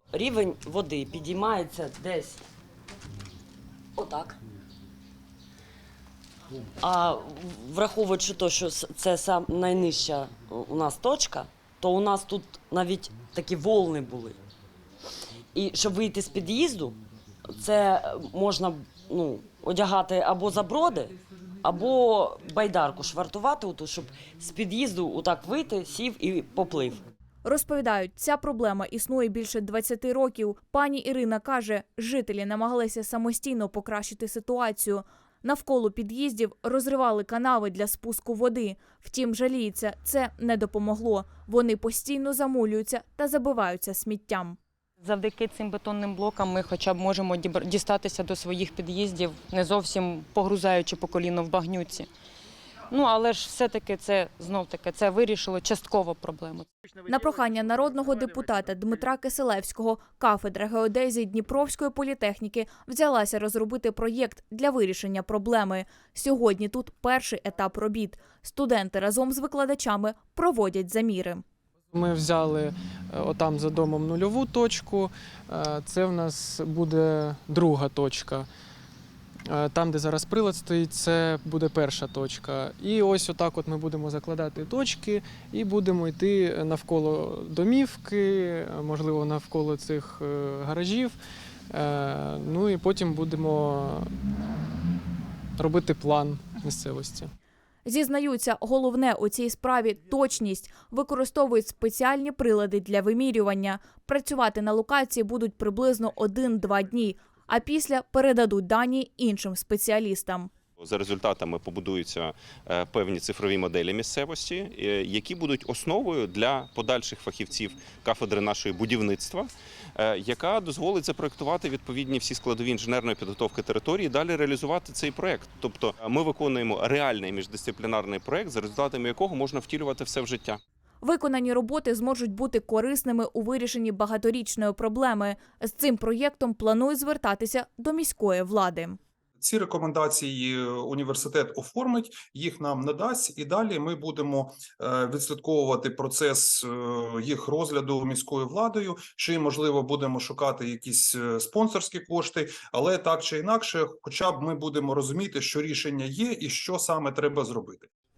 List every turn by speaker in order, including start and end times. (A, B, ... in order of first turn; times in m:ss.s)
0:00.1-0:02.5 A
0:04.0-0:04.4 A
0:06.8-0:14.4 A
0:15.6-0:27.0 A
0:27.4-0:44.6 B
0:45.0-0:52.1 C
0:52.9-0:56.7 C
0:57.0-1:11.4 B
1:11.9-1:18.5 D
1:19.5-1:31.2 D
1:31.7-1:34.1 D
1:35.6-1:37.3 D
1:37.9-1:50.5 B
1:50.8-2:10.6 E
2:11.0-2:19.0 B
2:19.4-2:37.9 F